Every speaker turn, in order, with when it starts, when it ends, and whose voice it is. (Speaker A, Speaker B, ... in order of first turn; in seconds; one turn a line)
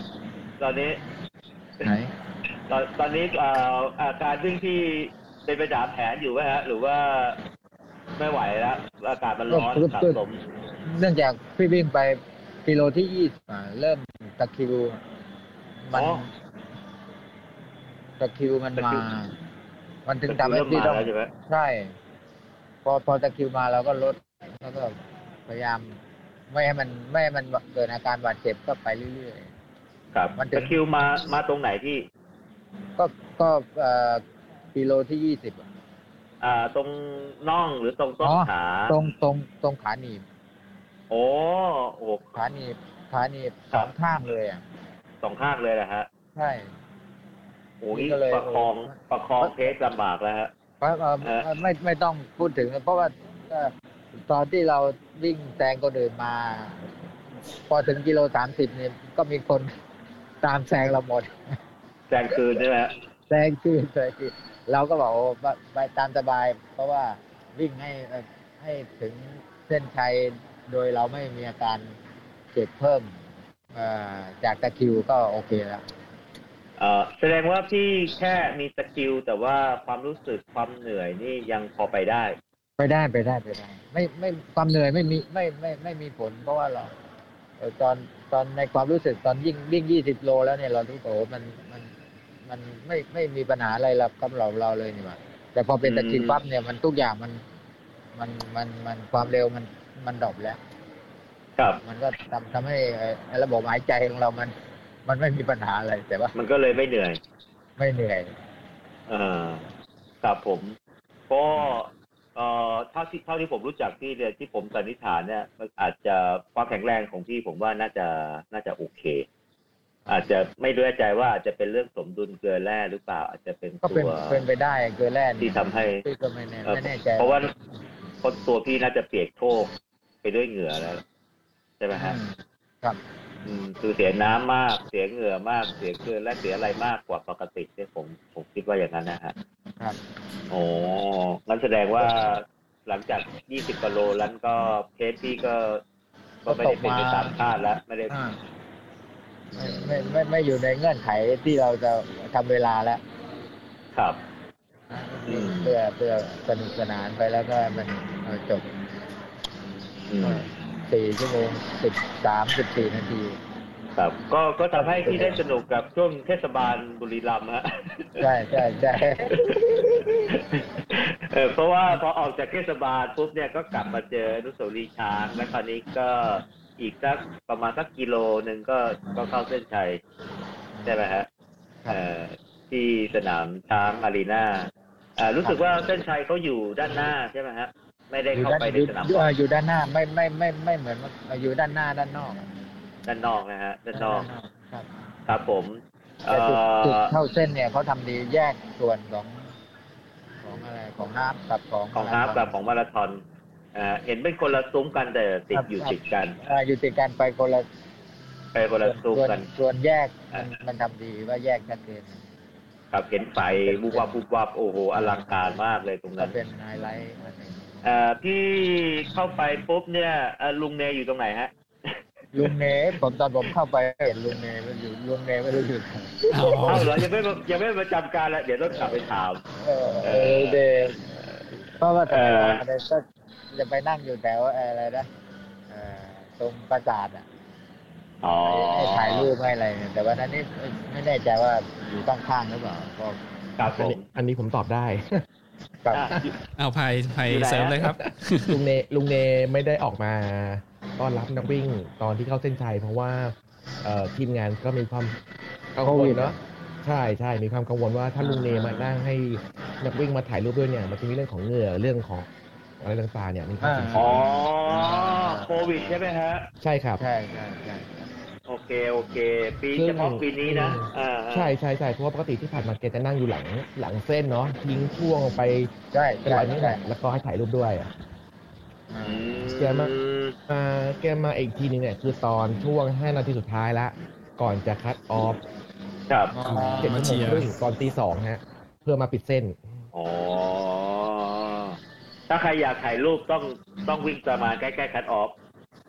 Speaker A: 0.6-1.0
Speaker B: 1.8-2.1
Speaker A: 2.7-7.4
Speaker A: 8.2-10.4
Speaker B: 9.5-10.2
Speaker B: 10.8-15.0
Speaker B: 15.8-16.3
Speaker A: 15.9-16.2
Speaker B: 18.2-19.3
Speaker A: 18.8-19.0
Speaker B: 20.1-21.9
Speaker A: 20.3-21.3
Speaker B: 22.8-26.0
Speaker B: 26.5-29.5
Speaker A: 30.1-32.0
Speaker B: 30.4-30.8
Speaker B: 33.0-34.2
Speaker B: 34.7-35.7
Speaker A: 36.4-39.0
Speaker B: 38.2-40.2
Speaker A: 41.1-42.4
Speaker B: 42.3-44.6
Speaker A: 45.2-46.1
Speaker B: 46.3-46.7
Speaker A: 47.8-50.5
Speaker B: 47.9-49.7
Speaker B: 50.8-56.9
Speaker B: 57.7-59.7
Speaker B: 60.4-61.3
Speaker A: 62.1-62.9
Speaker B: 63.3-71.9
Speaker B: 72.5-73.2
Speaker B: 73.7-75.8
Speaker A: 76.8-82.4
Speaker B: 82.8-86.9
Speaker B: 87.6-91.9
Speaker B: 92.4-97.4
Speaker A: 95.8-96.4
Speaker B: 98.1-100.6
Speaker B: 101.8-104.5
Speaker B: 105.0-106.3
Speaker A: 106.3-107.2
Speaker B: 107.8-108.3
Speaker A: 109.1-109.6
Speaker A: 110.2-110.8
Speaker A: 111.3-119.2
Speaker A: 120.1-124.4
Speaker B: 123.8-127.5
Speaker A: 125.4-126.0
Speaker A: 126.7-127.5
Speaker A: 128.2-129.7
Speaker A: 130.2-131.0
Speaker A: 131.8-132.2
Speaker B: 131.9-133.0
Speaker A: 133.4-139.3
Speaker A: 140.5-145.8
Speaker B: 146.4-147.4
Speaker A: 146.4-148.1
Speaker B: 148.1-148.4
Speaker A: 149.6-150.1
Speaker B: 149.6-153.0
Speaker A: 153.9-154.2
Speaker B: 154.9-158.7
Speaker A: 155.3-155.7
Speaker A: 160.1-160.5
Speaker B: 160.2-163.4
Speaker A: 164.0-168.3
Speaker B: 164.7-165.4
Speaker B: 168.2-169.5
Speaker A: 169.3-180.0
Speaker A: 180.8-181.3
Speaker A: 181.9-189.3
Speaker B: 185.4-185.9
Speaker B: 186.8-187.1
Speaker B: 188.3-192.5
Speaker A: 193.1-194.3
Speaker B: 193.9-194.9
Speaker A: 195.3-197.1
Speaker B: 196.3-199.5
Speaker B: 200.4-202.5
Speaker A: 201.9-203.2
Speaker A: 203.7-206.4
Speaker B: 205.5-207.7
Speaker A: 208.5-209.4
Speaker B: 208.8-212.2
Speaker A: 212.9-216.4
Speaker B: 213.4-214.1
Speaker B: 214.9-215.6
Speaker B: 216.2-217.6
Speaker A: 217.8-222.5
Speaker B: 222.3-227.0
Speaker C: 226.3-226.9
Speaker A: 226.7-229.4
Speaker B: 229.6-231.0
Speaker A: 230.0-230.6
Speaker B: 231.8-235.1
Speaker A: 232.1-232.6
Speaker B: 235.7-237.2
Speaker A: 238.2-239.3
Speaker B: 238.4-243.2
Speaker A: 243.6-244.0
Speaker D: 243.7-245.2
Speaker B: 245.8-246.1
Speaker A: 245.9-246.3
Speaker C: 246.6-248.6
Speaker A: 247.3-247.8
Speaker D: 247.8-255.2
Speaker D: 255.8-262.3
Speaker B: 255.8-256.4
Speaker B: 258.2-258.9
Speaker D: 262.8-264.2
Speaker B: 263.6-266.0
Speaker A: 263.9-266.5
Speaker D: 266.6-267.0
Speaker B: 267.0-268.1
Speaker A: 268.5-271.5
Speaker D: 269.7-275.7
Speaker B: 275.9-276.8
Speaker D: 276.2-277.9
Speaker B: 278.9-279.2
Speaker A: 279.0-280.3
Speaker D: 279.6-279.9
Speaker D: 280.5-285.4
Speaker A: 286.1-286.3
Speaker B: 286.3-287.2
Speaker C: 286.4-287.5
Speaker D: 286.6-289.6
Speaker A: 289.9-291.8
Speaker A: 292.3-295.3